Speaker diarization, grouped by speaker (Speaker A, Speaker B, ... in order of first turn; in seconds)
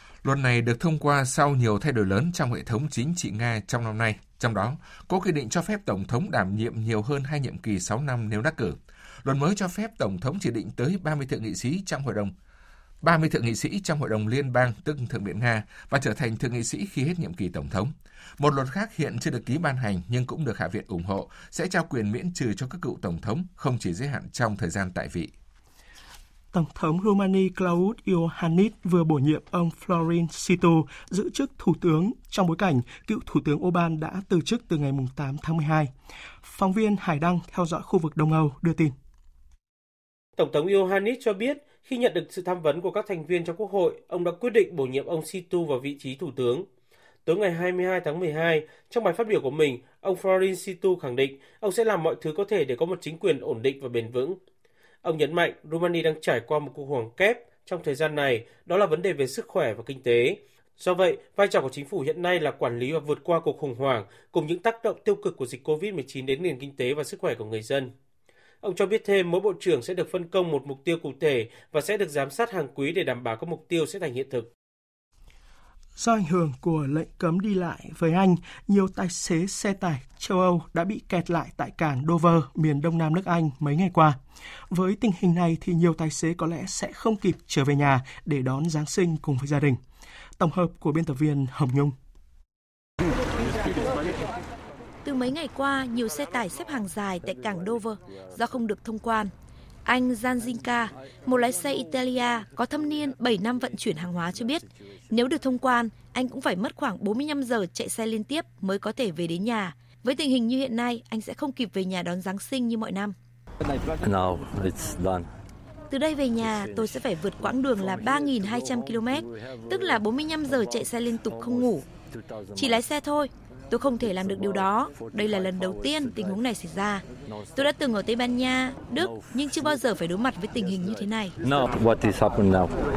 Speaker A: 0.2-12.3, 13.0-25.3
Speaker B: 26.5-35.9, 36.4-38.9, 76.0-84.2, 84.7-89.8, 90.4-91.9
Speaker C: 40.4-46.7, 47.3-54.4, 55.0-67.9, 68.6-74.5
Speaker D: 95.0-99.3, 99.8-113.2, 115.9-121.9, 122.6-131.4
Speaker E: 113.9-115.3, 131.4-132.8